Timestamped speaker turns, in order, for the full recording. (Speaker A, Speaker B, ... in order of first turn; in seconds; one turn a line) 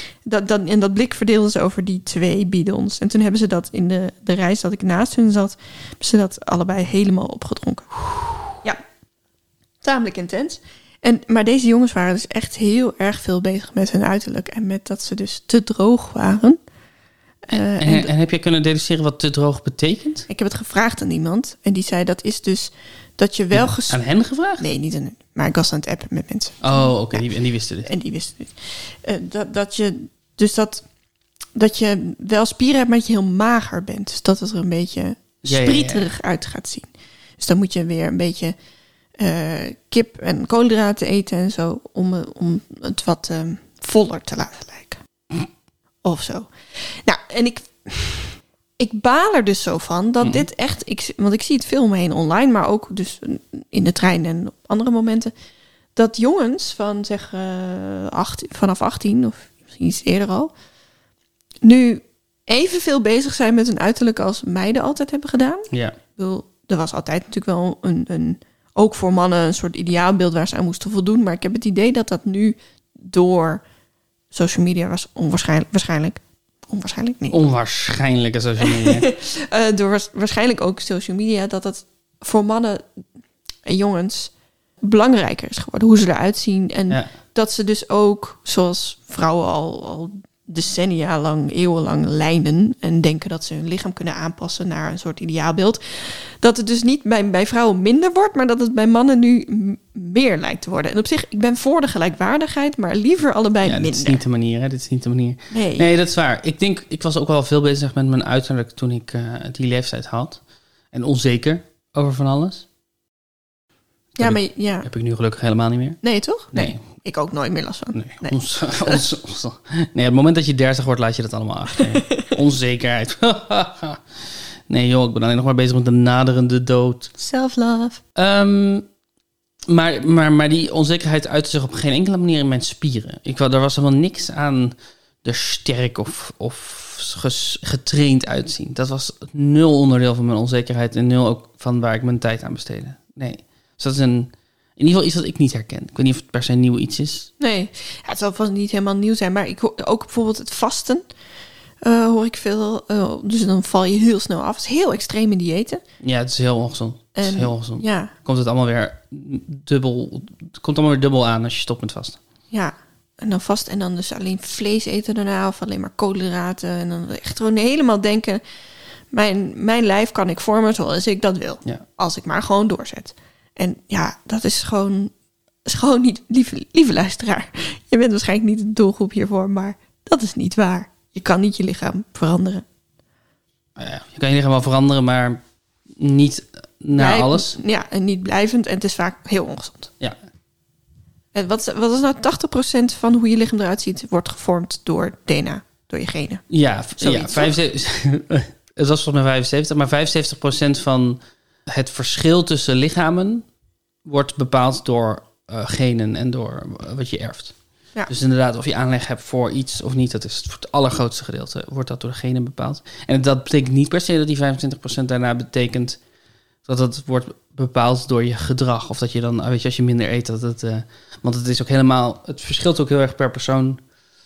Speaker A: 0.2-8.0
Speaker A: 9.8-16.6
Speaker A: 17.5-18.1
Speaker B: 17.5-20.3
Speaker A: 20.3-24.0
Speaker B: 23.5-24.6
Speaker A: 24.6-27.2
Speaker B: 26.6-27.9
Speaker A: 27.9-30.8
Speaker A: 31.5-38.5
Speaker B: 35.4-36.1
Speaker A: 39.2-45.0
Speaker A: 46.0-55.3
Speaker B: 50.2-50.5
Speaker A: 56.0-60.5
Speaker A: 61.6-73.6
Speaker B: 65.7-66.0
Speaker A: 74.3-77.4
Speaker B: 77.3-79.1
Speaker A: 78.6-82.8
Speaker A: 83.6-84.3
Speaker A: 84.8-104.2
Speaker B: 103.6-110.4
Speaker A: 105.5-105.9
Speaker B: 110.9-112.7
Speaker B: 114.2-116.0
Speaker A: 114.2-114.9
Speaker A: 116.0-119.0
Speaker B: 116.5-116.8
Speaker B: 117.9-124.0
Speaker A: 121.8-122.3
Speaker B: 124.7-127.1
Speaker A: 127.2-128.0
Speaker B: 128.2-128.8
Speaker B: 129.7-147.3
Speaker A: 147.4-151.0
Speaker A: 151.8-155.8
Speaker B: 156.0-162.2
Speaker A: 157.2-158.1
Speaker A: 162.5-168.4
Speaker A: 169.1-175.1
Speaker A: 175.7-182.6
Speaker B: 183.8-185.4
Speaker B: 185.9-187.6
Speaker A: 186.9-189.9
Speaker A: 191.3-196.4
Speaker B: 196.5-203.4
Speaker A: 197.0-197.5
Speaker B: 204.0-207.5
Speaker B: 208.1-216.0
Speaker B: 216.6-223.8